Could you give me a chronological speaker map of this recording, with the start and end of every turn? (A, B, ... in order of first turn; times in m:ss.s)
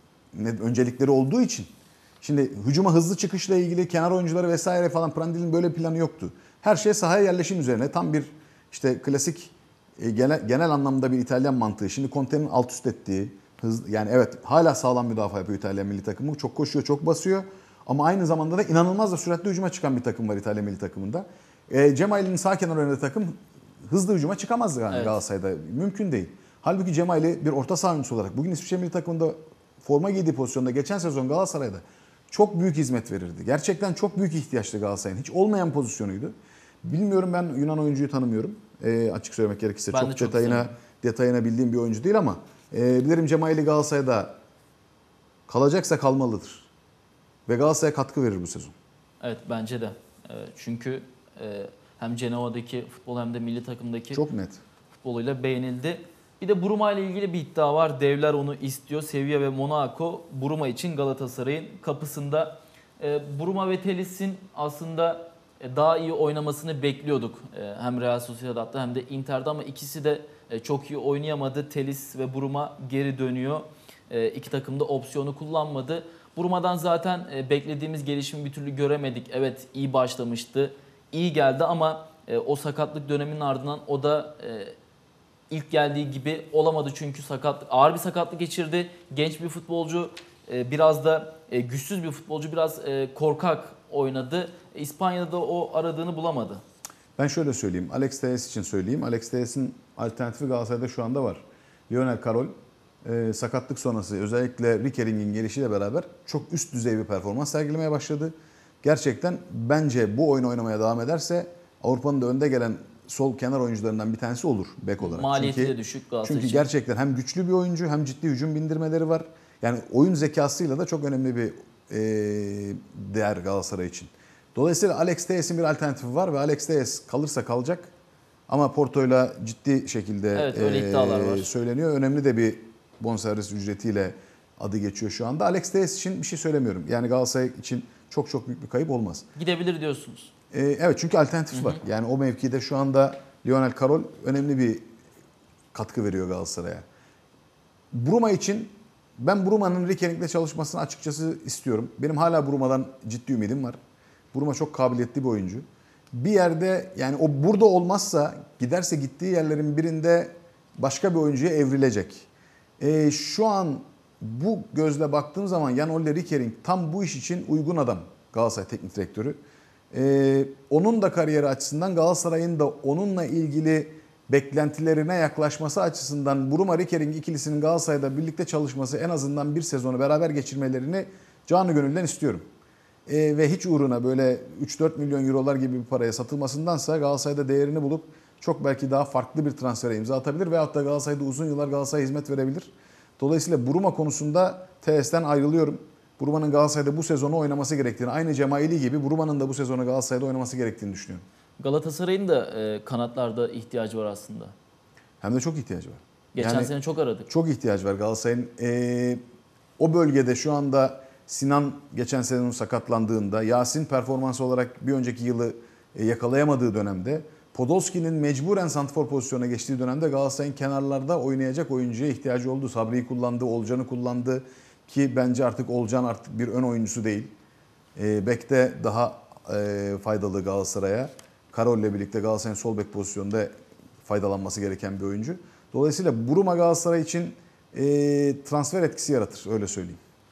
0:00.3-0:44.4 A
0:24.9-0:25.2 B
0:39.9-0:40.7 B
0:45.5-0:46.7 A
0:47.5-0:48.7 A
0:49.2-0:54.2 B
0:54.1-0:54.6 A
0:55.0-1:24.8 B
1:25.5-1:36.6 B
1:37.2-2:07.9 A
1:55.0-1:56.7 B
2:08.5-2:19.3 A
2:10.3-2:11.5 B
2:19.4-2:20.3 B
2:20.5-2:24.9 A
2:21.5-2:21.8 B
2:25.7-2:26.8 A
2:27.9-2:33.8 A
2:34.3-2:42.3 A
2:42.8-2:49.4 A
2:49.9-3:02.5 A
3:03.1-3:21.2 A
3:21.6-3:24.6 B
3:25.2-3:26.7 A
3:26.4-3:27.3 B
3:27.3-3:29.2 A
3:29.8-3:47.4 A
3:48.0-3:53.5 A
3:54.0-4:00.0 A